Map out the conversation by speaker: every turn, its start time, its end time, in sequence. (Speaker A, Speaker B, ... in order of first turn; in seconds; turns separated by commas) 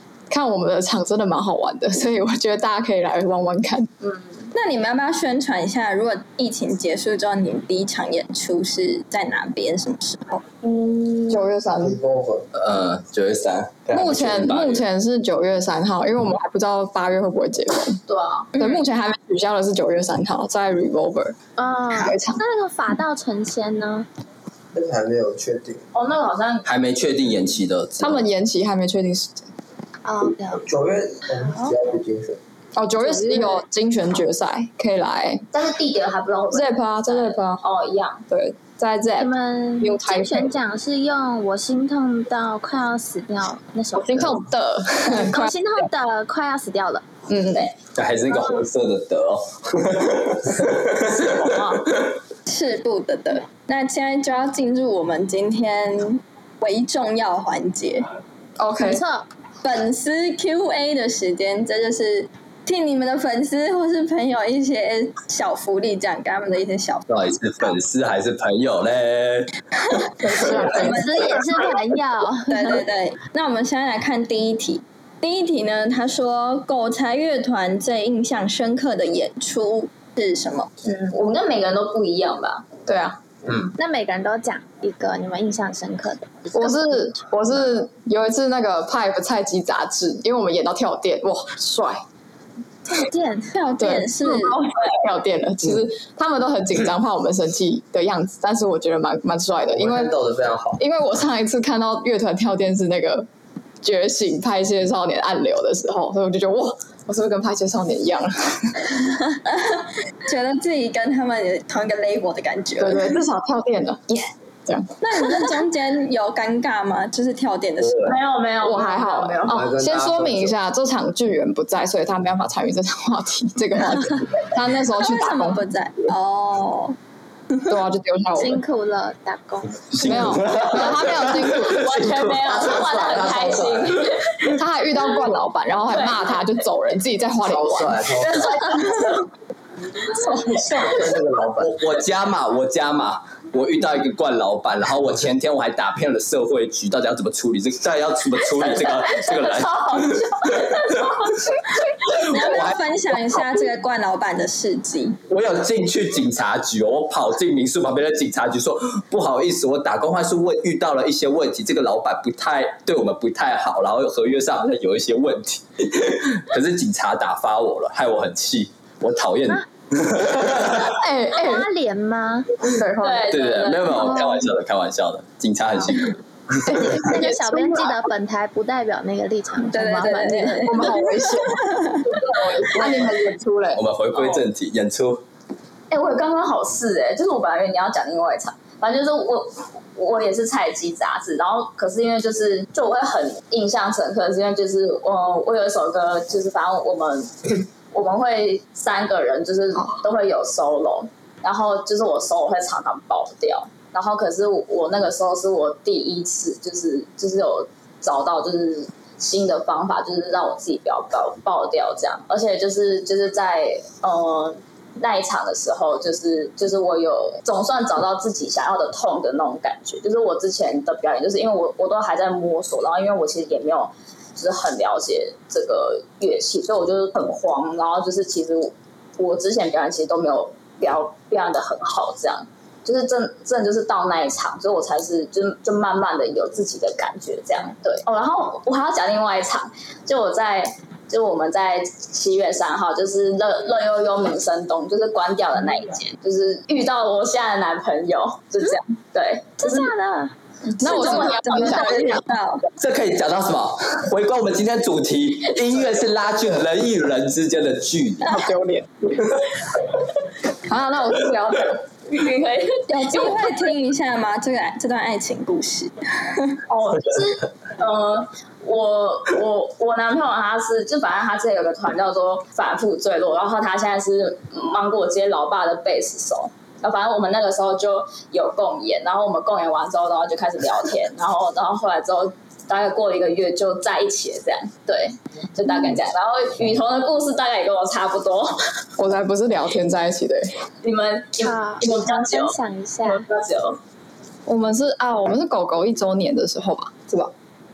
Speaker A: 0.3-3.9, Speaker B: 4.0-4.5, Speaker C: 4.5-10.5, Speaker A: 11.2-12.0, Speaker D: 11.7-12.5, Speaker E: 12.5-14.8, Speaker A: 13.9-18.0, Speaker B: 18.1-18.5, Speaker A: 18.6-21.4, Speaker F: 21.6-24.1, Speaker A: 22.0-22.4, Speaker D: 24.7-25.8, Speaker B: 25.9-26.7, Speaker E: 26.6-28.3, Speaker A: 28.0-29.4, Speaker F: 30.0-30.6, Speaker D: 30.6-32.4, Speaker A: 32.8-35.4, Speaker F: 33.0-33.6, Speaker B: 35.5-38.2, Speaker A: 36.5-37.6, Speaker A: 38.3-40.5, Speaker F: 39.2-44.4, Speaker A: 43.9-45.5, Speaker F: 45.0-47.0, Speaker A: 47.3-47.7, Speaker E: 47.9-52.1, Speaker B: 51.0-51.8, Speaker C: 52.5-58.0, Speaker A: 58.6-59.0, Speaker F: 58.8-59.2, Speaker C: 59.6-67.0, Speaker E: 67.1-69.5, Speaker C: 69.9-71.6, Speaker A: 70.2-71.1, Speaker F: 70.4-72.8, Speaker C: 72.5-80.7, Speaker B: 80.8-82.8, Speaker A: 82.8-83.2, Speaker F: 83.7-87.0, Speaker A: 86.5-92.0, Speaker F: 92.8-93.5, Speaker C: 93.5-94.7, Speaker A: 93.8-100.1, Speaker D: 99.7-100.8, Speaker A: 100.8-103.3, Speaker A: 103.8-108.9, Speaker C: 109.5-113.2, Speaker A: 112.8-115.5, Speaker C: 115.0-118.2, Speaker E: 117.8-118.1, Speaker B: 118.0-119.6, Speaker A: 118.6-125.6, Speaker D: 119.5-120.5, Speaker C: 124.9-127.0, Speaker A: 127.7-128.6, Speaker F: 128.3-130.0, Speaker E: 129.9-133.8, Speaker A: 130.0-131.9, Speaker B: 131.6-134.5, Speaker D: 132.5-133.9, Speaker A: 134.5-138.1, Speaker B: 135.9-136.4, Speaker D: 137.4-138.7, Speaker B: 138.2-139.2, Speaker A: 140.1-141.1, Speaker D: 140.7-141.8, Speaker E: 141.6-151.5, Speaker B: 148.5-152.2, Speaker E: 152.1-153.6, Speaker C: 152.2-155.2, Speaker E: 155.3-170.9, Speaker A: 170.8-171.7, Speaker F: 171.3-172.5, Speaker A: 172.6-173.3, Speaker B: 173.0-174.4, Speaker E: 173.3-176.2, Speaker A: 176.6-178.0, Speaker F: 176.7-180.9, Speaker C: 179.7-182.0, Speaker A: 180.6-183.8, Speaker E: 183.7-185.2, Speaker B: 184.1-184.4, Speaker B: 185.9-249.9, Speaker A: 199.8-200.0, Speaker F: 249.6-250.3, Speaker B: 250.7-252.1, Speaker A: 250.8-252.2, Speaker C: 250.9-252.6, Speaker E: 252.8-258.4, Speaker A: 258.2-258.9, Speaker A: 260.7-261.8, Speaker B: 262.1-263.7, Speaker C: 262.9-266.6, Speaker B: 266.7-288.6, Speaker A: 289.0-290.5, Speaker B: 290.8-293.8, Speaker F: 291.4-293.2, Speaker A: 294.4-297.3